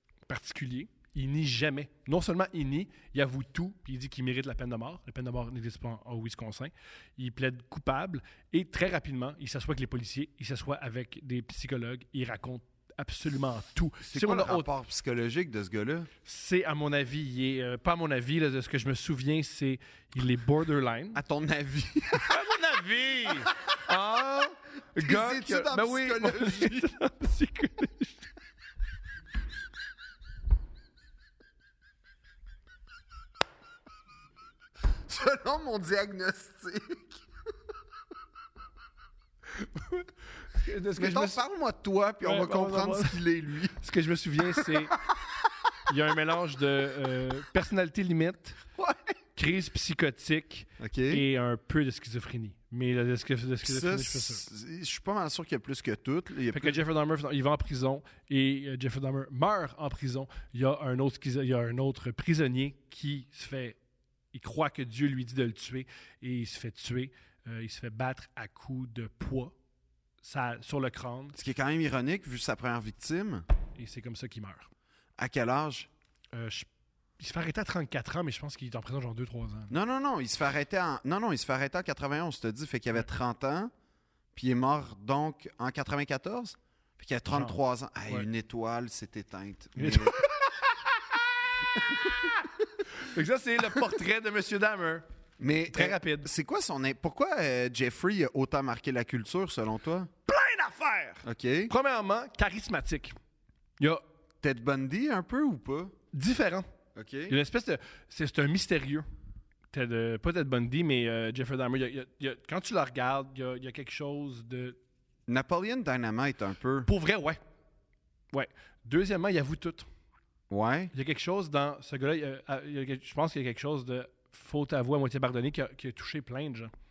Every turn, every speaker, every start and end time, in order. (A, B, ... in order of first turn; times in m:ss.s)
0:00.3-0:14.7 A
0:14.0-0:16.1 B
0:16.2-0:21.2 A
0:21.2-0:22.4 B
0:22.2-0:28.3 A
0:23.5-0:23.9 B
0:25.0-0:26.9 B
0:35.1-0:37.2 B
0:39.6-0:41.4 A
0:41.0-0:43.8 B
0:42.2-0:43.2 A
0:43.8-0:45.0 A
0:44.6-0:45.5 B
0:45.9-0:48.6 A
0:48.8-0:49.1 B
0:49.4-0:54.4 A
0:50.8-0:51.2 B
0:53.6-0:56.8 B
0:56.5-1:03.8 A
1:04.3-1:09.6 A
1:10.2-1:11.4 A
1:11.4-1:13.4 B
1:13.8-1:14.7 A
1:15.2-1:15.9 B
1:16.3-1:16.7 A
1:17.2-1:19.8 A
1:19.7-1:23.7 B
1:24.3-1:30.2 B
1:29.8-1:31.1 A
1:31.8-1:35.0 A
1:35.4-1:40.1 B
1:35.7-1:36.3 A
1:40.3-1:43.2 A
1:41.2-1:41.7 B
1:44.4-1:45.9 B
1:46.1-1:46.7 A
1:47.0-1:47.4 B
1:47.3-1:49.1 A
1:49.7-1:54.8 A
1:55.3-1:56.9 B
1:56.9-1:57.4 A
1:58.3-1:59.9 A
2:00.5-2:00.9 B
2:00.9-2:06.7 A